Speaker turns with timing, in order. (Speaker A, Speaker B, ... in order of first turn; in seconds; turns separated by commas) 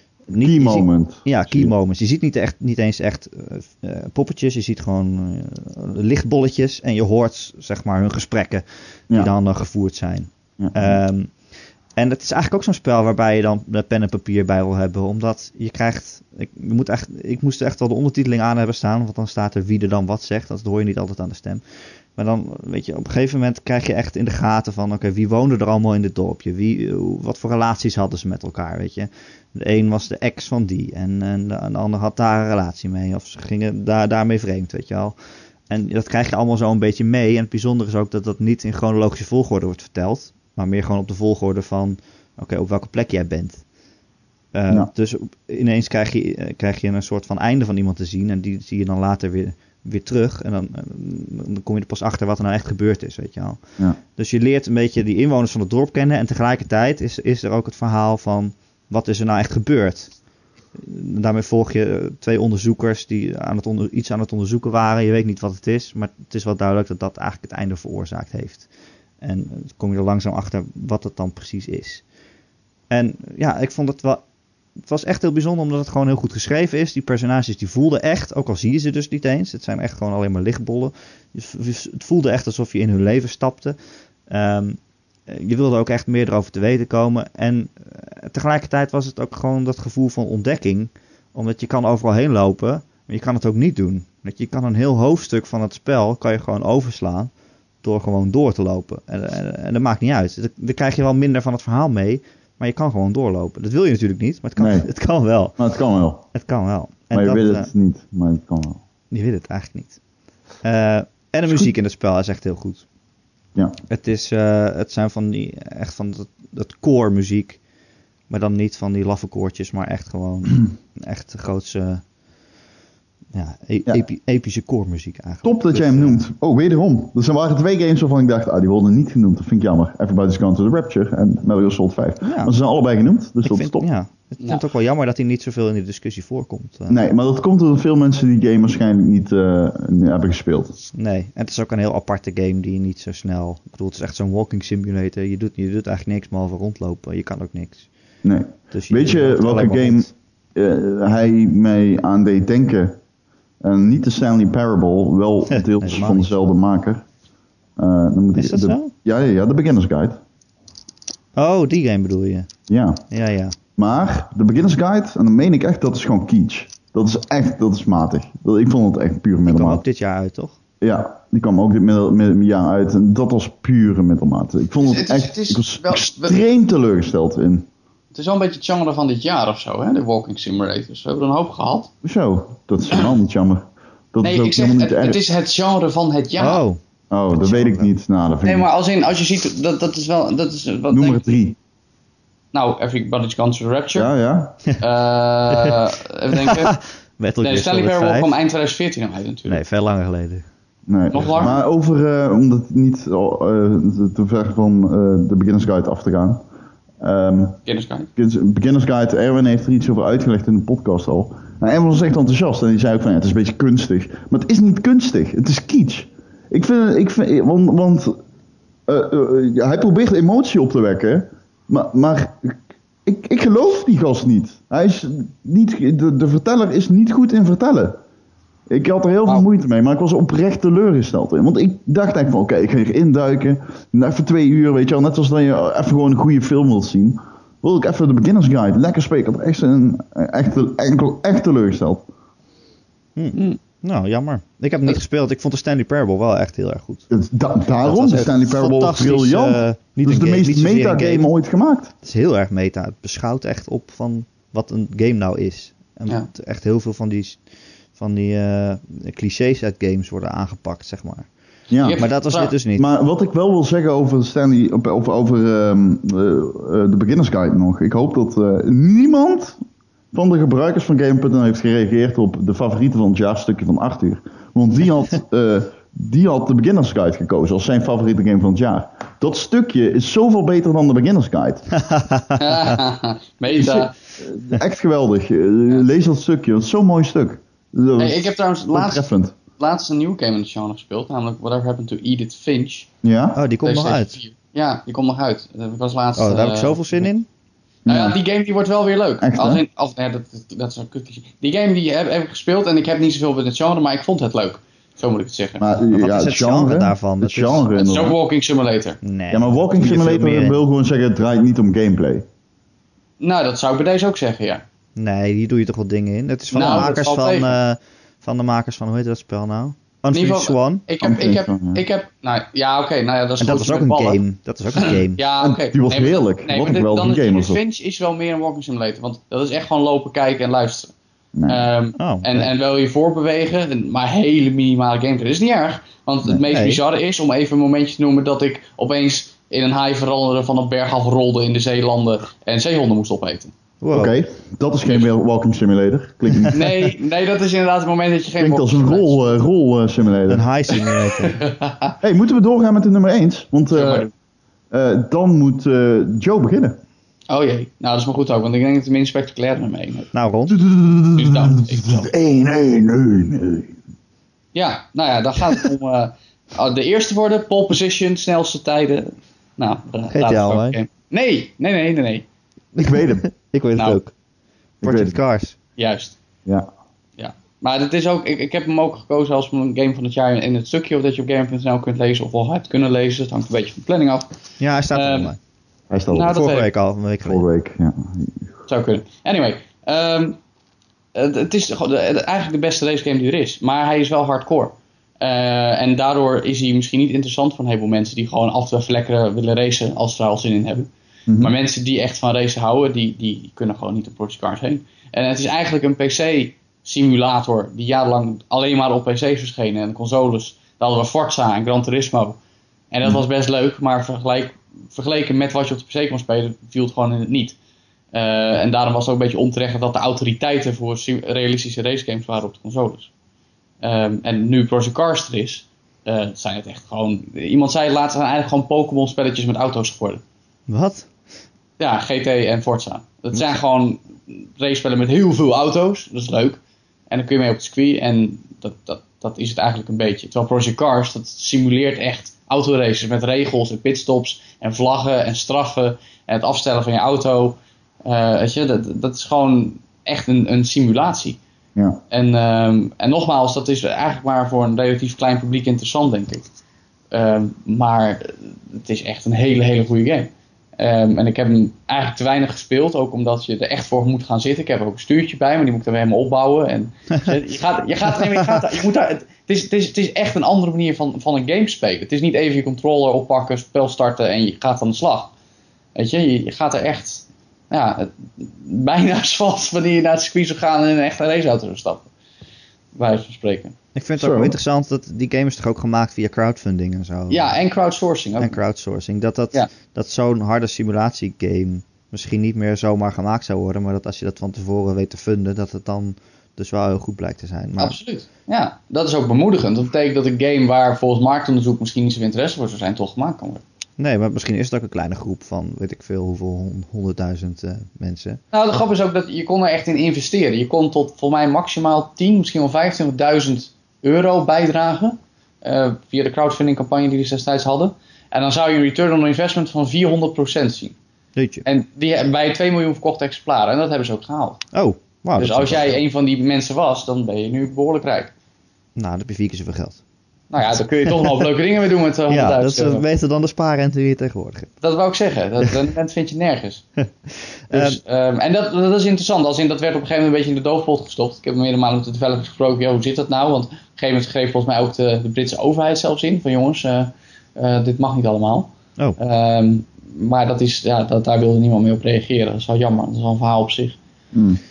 Speaker A: 0.3-11.3, Speaker B: 0.4-1.7, Speaker B: 10.6-11.0, Speaker A: 11.9-21.6, Speaker A: 22.1-35.1, Speaker A: 35.7-43.6, Speaker A: 44.5-53.6, Speaker A: 54.1-60.1, Speaker A: 60.7-68.7, Speaker A: 69.2-72.0, Speaker A: 72.9-74.2, Speaker A: 74.8-83.8, Speaker A: 84.3-97.3, Speaker A: 97.8-105.6, Speaker B: 104.6-104.9, Speaker B: 105.6-106.2, Speaker A: 106.3-107.7, Speaker B: 107.1-108.8, Speaker A: 109.1-110.0, Speaker A: 110.6-112.8, Speaker A: 113.9-117.6, Speaker A: 118.3-122.0, Speaker A: 123.3-126.2, Speaker B: 125.4-133.8, Speaker A: 132.2-132.5, Speaker A: 133.4-137.0, Speaker B: 136.9-140.8, Speaker A: 140.9-147.9, Speaker B: 148.2-153.0, Speaker A: 148.7-150.1, Speaker B: 153.6-157.0, Speaker A: 155.5-156.3, Speaker B: 157.8-160.2, Speaker A: 158.3-158.9, Speaker A: 161.3-162.5, Speaker B: 162.7-163.0, Speaker A: 163.1-163.6, Speaker B: 163.8-169.8, Speaker A: 169.5-170.6, Speaker B: 170.8-177.7, Speaker C: 174.8-176.4, Speaker C: 178.1-181.9, Speaker B: 182.0-185.2, Speaker C: 184.2-186.6, Speaker A: 186.4-187.9, Speaker B: 187.1-188.7, Speaker C: 188.4-191.3, Speaker B: 190.9-191.6, Speaker C: 192.5-194.1, Speaker B: 193.9-194.6, Speaker C: 194.8-196.8, Speaker A: 196.3-198.3, Speaker C: 197.4-199.6, Speaker A: 199.5-200.4, Speaker B: 200.9-206.4, Speaker C: 201.1-201.6, Speaker A: 201.2-201.4, Speaker B: 207.0-207.6, Speaker C: 207.7-208.1, Speaker B: 208.2-218.2, Speaker B: 218.9-228.0, Speaker B: 228.7-242.1, Speaker A: 243.2-247.1, Speaker B: 247.1-251.9, Speaker A: 247.8-251.3, Speaker A: 252.0-257.4, Speaker A: 257.9-261.3, Speaker B: 261.7-262.0, Speaker C: 261.7-262.5, Speaker A: 261.9-262.9, Speaker B: 262.8-269.6, Speaker B: 270.1-281.8, Speaker A: 281.8-282.8, Speaker C: 282.4-283.9, Speaker B: 283.5-289.3, Speaker C: 288.0-289.1, Speaker C: 289.6-292.9, Speaker B: 293.0-293.4, Speaker A: 293.4-294.1, Speaker C: 293.6-297.1, Speaker A: 296.2-297.3, Speaker B: 297.9-298.2, Speaker C: 297.9-305.6, Speaker B: 299.2-299.6, Speaker B: 305.6-308.2, Speaker A: 305.9-307.7, Speaker C: 307.7-309.0, Speaker A: 309.0-310.6, Speaker B: 309.3-312.2, Speaker C: 313.2-314.6, Speaker A: 314.9-320.8, Speaker C: 316.5-317.5, Speaker C: 320.1-324.2, Speaker B: 321.0-321.8, Speaker A: 323.4-325.2, Speaker C: 324.7-330.9, Speaker B: 325.4-327.6, Speaker B: 331.3-331.7, Speaker C: 331.5-343.5, Speaker A: 332.0-332.5, Speaker A: 336.4-336.8, Speaker A: 343.8-344.1, Speaker B: 343.9-346.6, Speaker C: 346.5-349.4, Speaker B: 348.4-350.4, Speaker A: 350.3-351.5, Speaker C: 350.7-351.9, Speaker B: 352.0-354.1, Speaker C: 353.7-354.1, Speaker B: 354.7-356.8, Speaker C: 357.3-360.1, Speaker A: 360.1-360.6, Speaker B: 360.5-363.7, Speaker C: 361.1-362.1, Speaker C: 364.5-372.3, Speaker A: 370.1-370.8, Speaker A: 372.8-374.1, Speaker B: 372.8-373.2, Speaker A: 374.8-375.6, Speaker B: 374.8-375.1, Speaker C: 375.8-376.2, Speaker C: 377.2-384.3, Speaker A: 384.6-385.4, Speaker C: 384.9-385.3, Speaker B: 385.9-386.4, Speaker C: 386.1-386.7, Speaker A: 386.3-387.4, Speaker B: 387.2-388.5, Speaker C: 388.7-390.4, Speaker C: 391.1-412.4, Speaker B: 401.3-401.5, Speaker C: 412.9-417.6, Speaker C: 418.1-423.1, Speaker C: 423.8-430.2, Speaker A: 430.7-431.1, Speaker C: 431.8-451.4, Speaker B: 451.7-452.0, Speaker C: 452.1-456.5, Speaker C: 457.1-475.3, Speaker A: 468.2-468.6, Speaker C: 475.9-482.1, Speaker C: 482.9-483.7, Speaker A: 483.9-487.5, Speaker B: 484.2-484.5, Speaker C: 487.3-488.6, Speaker A: 488.4-498.0, Speaker C: 497.8-503.6, Speaker A: 504.0-508.4, Speaker C: 508.5-521.0, Speaker A: 521.4-521.6, Speaker C: 521.6-524.6, Speaker A: 524.7-526.0, Speaker C: 525.4-528.3, Speaker A: 529.0-530.0, Speaker C: 530.5-533.0, Speaker A: 532.3-534.7, Speaker C: 534.8-536.8, Speaker A: 537.5-538.0, Speaker C: 537.7-554.0, Speaker B: 554.3-554.6